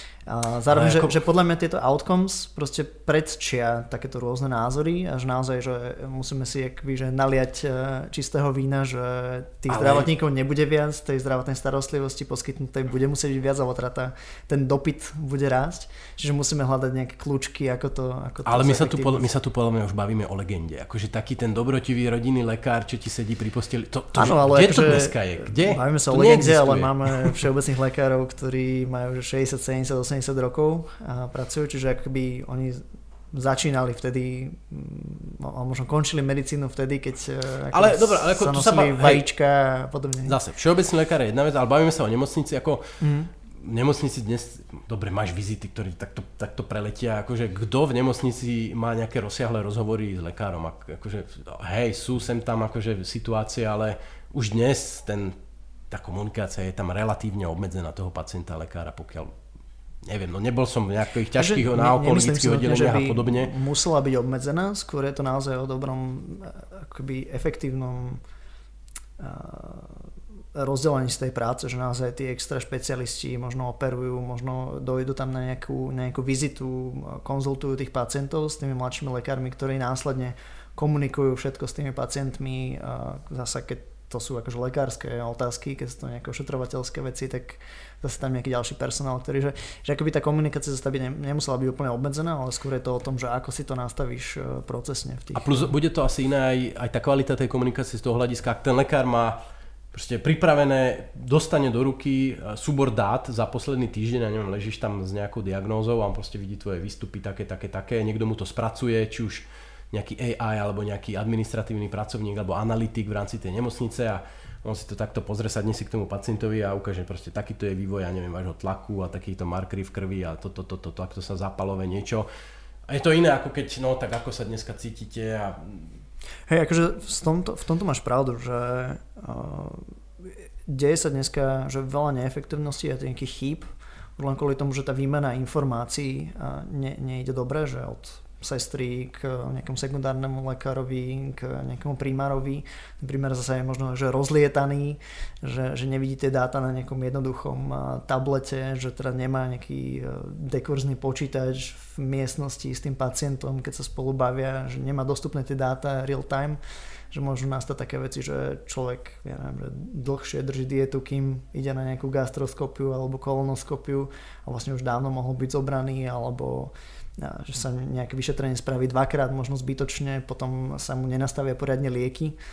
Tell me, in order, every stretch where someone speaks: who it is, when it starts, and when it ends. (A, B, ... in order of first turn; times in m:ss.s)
0:00.3-0:19.3 A
0:00.7-0:01.2 B
0:09.7-0:10.1 B
0:18.4-0:27.4 B
0:24.1-0:32.8 A
0:33.3-0:40.4 A
0:37.7-0:39.2 B
0:40.2-0:42.8 B
0:43.0-0:43.3 A
0:43.5-0:55.4 B
0:55.9-0:59.4 B
1:00.0-1:03.5 B
1:01.4-1:08.2 A
1:09.2-1:35.7 A
1:35.3-1:39.4 B
1:39.9-2:02.3 B
2:02.9-2:05.9 B
2:06.5-2:13.6 A
2:14.2-2:36.6 A
2:37.1-2:52.4 A